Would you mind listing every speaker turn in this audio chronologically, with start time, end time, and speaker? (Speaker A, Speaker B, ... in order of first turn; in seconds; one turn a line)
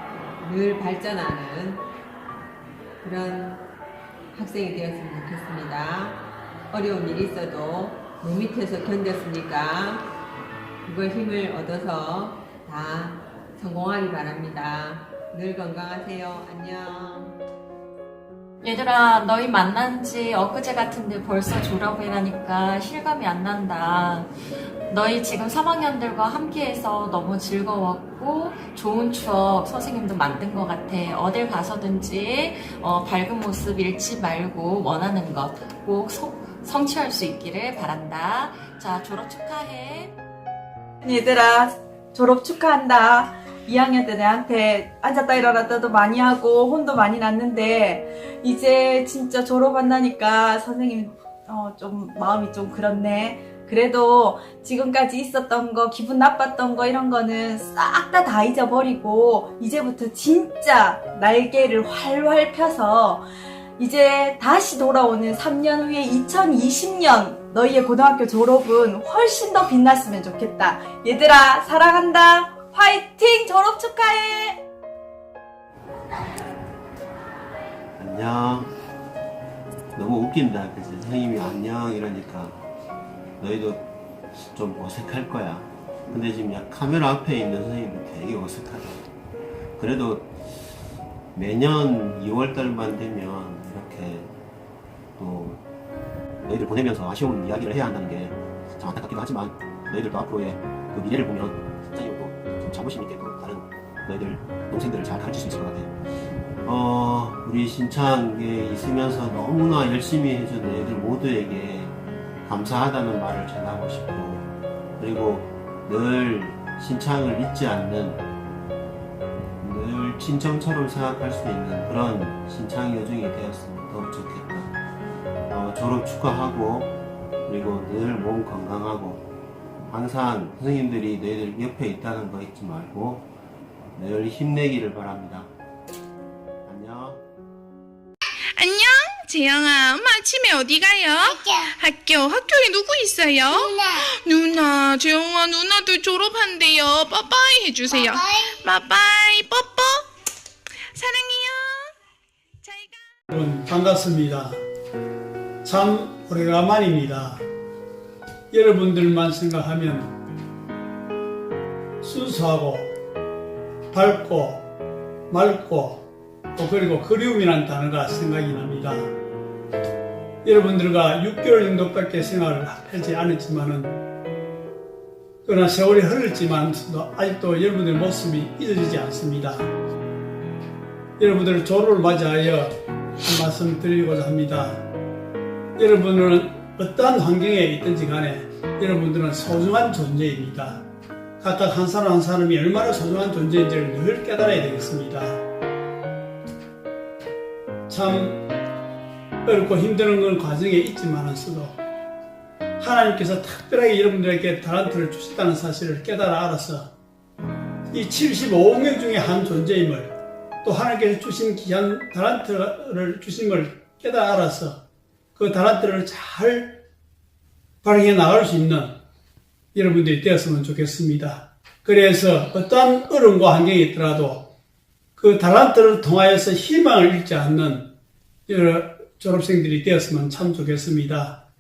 Speaker A: 0.4-1.9
Speaker A: 3.0-3.6
Speaker A: 4.3-10.1
Speaker A: 10.8-17.4
Speaker B: 18.6-24.3
Speaker B: 24.9-40.1
Speaker C: 41.0-74.6
Speaker D: 78.0-78.7
Speaker D: 80.0-82.6
Speaker D: 83.4-83.8
Speaker D: 84.3-89.0
Speaker D: 89.8-90.3
Speaker D: 91.3-94.3
Speaker D: 95.2-95.6
Speaker D: 96.5-105.9
Speaker D: 106.6-114.5
Speaker D: 115.0-118.2
Speaker D: 119.6-124.7
Speaker D: 125.5-126.9
Speaker D: 127.5-129.2
Speaker D: 129.9-133.3
Speaker D: 133.9-135.5
Speaker D: 136.7-137.2
Speaker E: 138.6-141.4
Speaker C: 140.9-142.1
Speaker E: 142.0-143.6
Speaker C: 143.1-144.0
Speaker E: 144.3-148.2
Speaker C: 147.8-148.3
Speaker E: 148.7-150.0
Speaker E: 151.0-151.7
Speaker F: 153.3-154.6
Speaker F: 155.7-157.4
Speaker F: 158.5-160.1
Speaker F: 162.0-162.9
Speaker F: 163.9-164.7
Speaker F: 165.3-169.1
Speaker F: 170.4-174.0
Speaker F: 175.5-179.7
Speaker F: 181.2-182.7
Speaker F: 183.2-184.8
Speaker F: 185.8-190.8
Speaker F: 191.4-195.4
Speaker F: 197.9-198.4
Speaker F: 199.5-201.8
Speaker F: 202.8-206.9
Speaker F: 207.9-210.1
Speaker F: 210.6-214.8
Speaker F: 215.4-216.8
Speaker F: 217.8-219.0
Speaker F: 219.7-224.5
Speaker F: 225.2-227.9
Speaker F: 228.5-231.4